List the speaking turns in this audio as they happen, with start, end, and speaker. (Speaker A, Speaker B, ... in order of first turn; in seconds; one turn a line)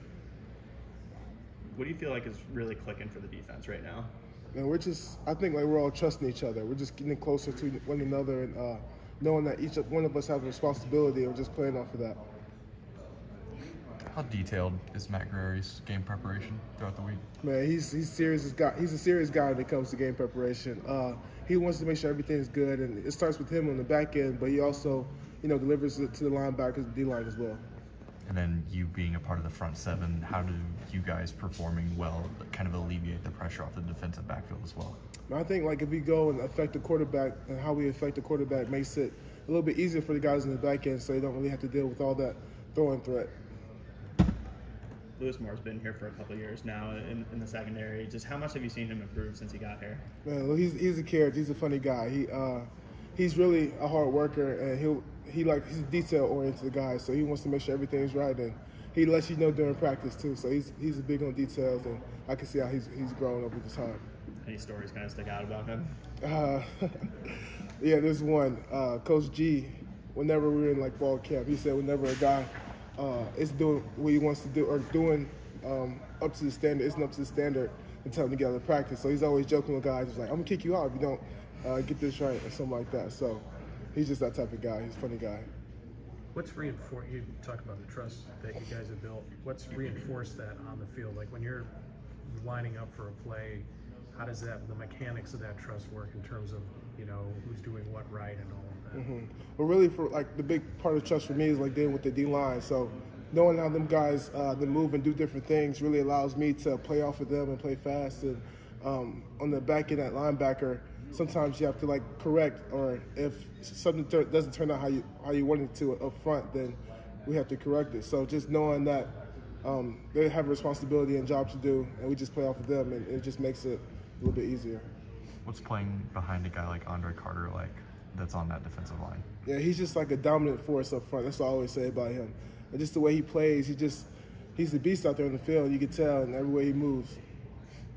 Speaker A: 1.7-4.1
Speaker B: 4.5-12.2
Speaker C: 14.1-17.2
Speaker B: 17.4-27.6
Speaker C: 28.2-35.0
Speaker B: 35.3-43.3
Speaker A: 45.2-50.0
Speaker B: 50.2-64.0
Speaker A: 64.4-65.9
Speaker B: 66.2-85.5
Speaker D: 86.3-91.7
Speaker D: 92.3-99.1
Speaker B: 98.9-124.9
Speaker C: 125.5-129.2
Speaker B: 129.5-137.2